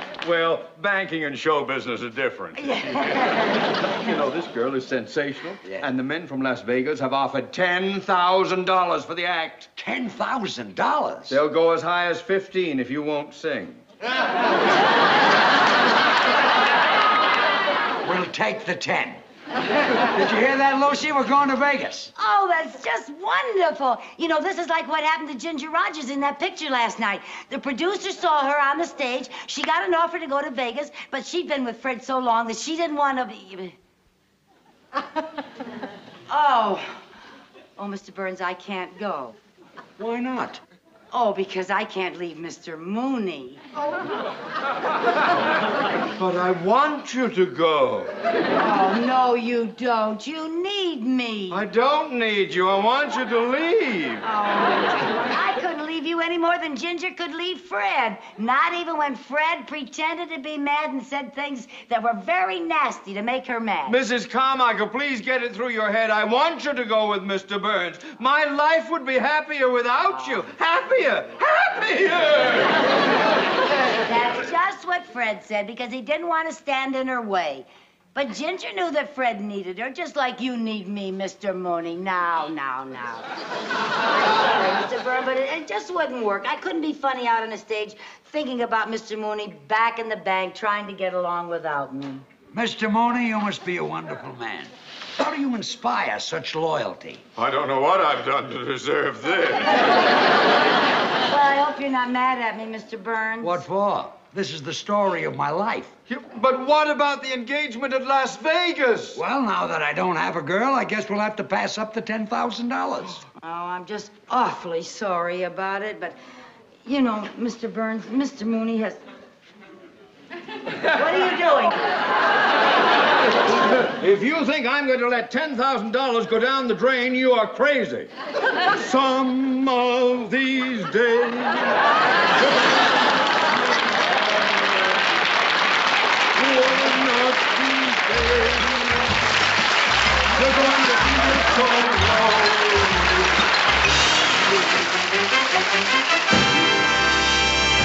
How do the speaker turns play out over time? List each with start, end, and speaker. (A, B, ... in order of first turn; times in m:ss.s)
0:00.2-0:09.7 A
0:02.6-0:03.6 B
0:05.6-0:05.9 C
0:09.8-0:11.4 C
0:11.3-0:13.8 A
0:18.0-0:19.2 C
0:20.1-0:22.1 C
0:22.2-0:33.8 B
0:36.3-0:37.0 B
0:37.8-0:39.4 B
0:40.0-0:40.6 C
0:41.1-0:43.6 B
0:46.2-0:48.1 A
0:48.6-0:51.6 B
0:51.5-0:54.3 A
0:54.2-1:04.0 B
1:03.9-1:12.8 A
1:14.0-1:23.3 B
1:24.1-1:32.2 B
1:32.5-1:37.2 C
1:37.4-1:39.9 A
1:41.2-1:43.6 B
1:43.4-1:45.9 C
1:46.1-1:49.2 A
1:49.2-1:53.2 C
1:53.4-1:56.2 B
1:56.8-1:59.0 B
2:00.9-2:01.8 B
2:03.5-2:08.1 A
2:08.7-2:11.8 A
2:16.4-2:19.1 A
2:20.4-2:23.3 A
2:24.5-2:24.9 A